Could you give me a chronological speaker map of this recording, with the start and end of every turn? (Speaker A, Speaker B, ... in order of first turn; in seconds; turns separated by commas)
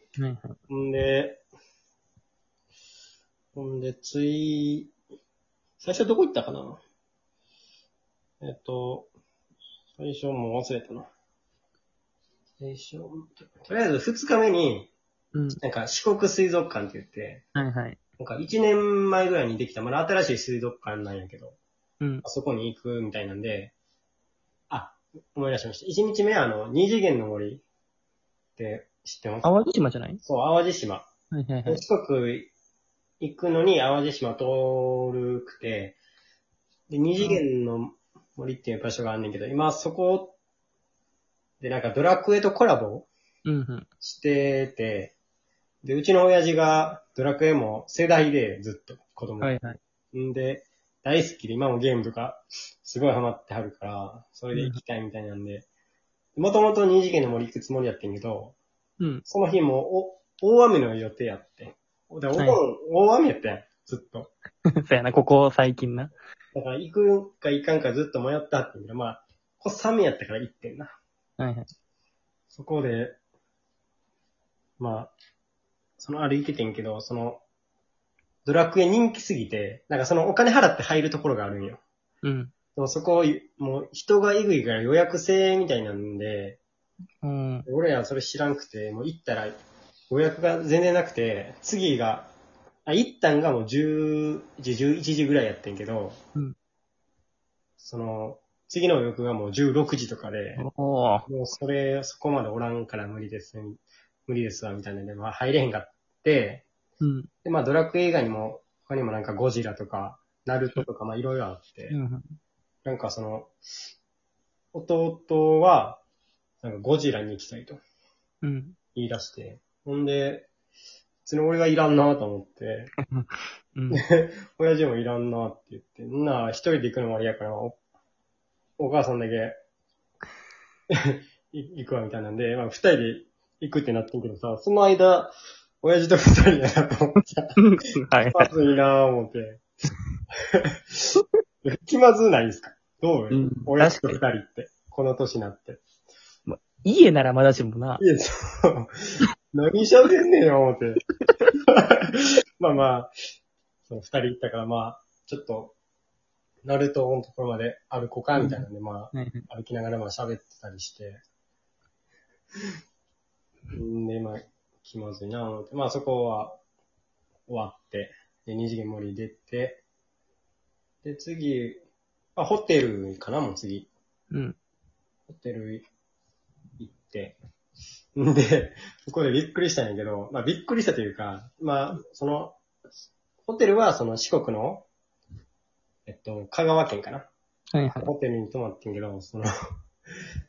Speaker A: 0.2-0.6, Speaker B: 0.7-1.4, Speaker B: 3.5-4.9, Speaker B: 5.8-6.8, Speaker B: 8.4-9.1, Speaker B: 10.0-11.1, Speaker B: 12.6-14.9, Speaker A: 15.3-15.6, Speaker B: 15.5-17.4, Speaker A: 17.6-18.0, Speaker B: 18.2-21.6, Speaker B: 22.2-23.7, Speaker B: 24.7-27.6, Speaker B: 28.6-29.6, Speaker A: 29.4-30.2, Speaker B: 30.2-31.1, Speaker A: 31.3-31.8, Speaker B: 31.7-32.5, Speaker B: 33.2-36.0, Speaker B: 36.9-40.4, Speaker B: 41.6-43.1, Speaker A: 43.5-43.9, Speaker B: 44.0-45.1, Speaker B: 45.8-49.5, Speaker A: 49.4-49.8, Speaker B: 50.1-55.7, Speaker A: 54.5-54.8, Speaker B: 56.4-58.6, Speaker B: 59.3-64.3, Speaker A: 64.8-66.1, Speaker B: 66.5-70.9, Speaker A: 71.4-71.7, Speaker B: 72.5-73.2, Speaker B: 74.8-75.1, Speaker B: 76.0-77.4, Speaker B: 78.5-81.8, Speaker A: 82.2-82.5, Speaker B: 82.8-86.6, Speaker A: 87.2-87.7, Speaker B: 87.7-89.6, Speaker B: 90.1-92.3, Speaker B: 92.9-96.2, Speaker B: 97.8-100.6, Speaker A: 100.6-101.3, Speaker B: 101.3-106.7, Speaker A: 107.0-107.3, Speaker B: 107.4-112.0, Speaker A: 111.9-112.4, Speaker B: 112.8-113.5, Speaker B: 114.7-116.0, Speaker B: 116.6-117.8, Speaker A: 118.4-118.8, Speaker B: 119.0-120.5, Speaker B: 121.3-122.9, Speaker A: 123.1-124.0, Speaker B: 123.9-127.8, Speaker B: 128.8-129.6, Speaker B: 130.9-137.6, Speaker A: 137.6-138.5, Speaker B: 138.3-139.6, Speaker B: 140.4-145.8, Speaker A: 143.3-144.2, Speaker A: 146.5-148.0, Speaker B: 148.0-151.0, Speaker B: 151.6-153.1, Speaker B: 153.9-155.8, Speaker B: 156.7-161.2, Speaker A: 158.4-159.4, Speaker B: 163.7-166.6, Speaker B: 167.5-169.8, Speaker B: 171.0-171.8, Speaker B: 172.4-173.9, Speaker A: 174.3-174.6, Speaker B: 175.3-175.8, Speaker B: 176.8-177.4, Speaker B: 178.2-182.6, Speaker B: 183.4-184.9, Speaker B: 186.1-187.3, Speaker A: 187.7-188.1, Speaker B: 188.0-189.5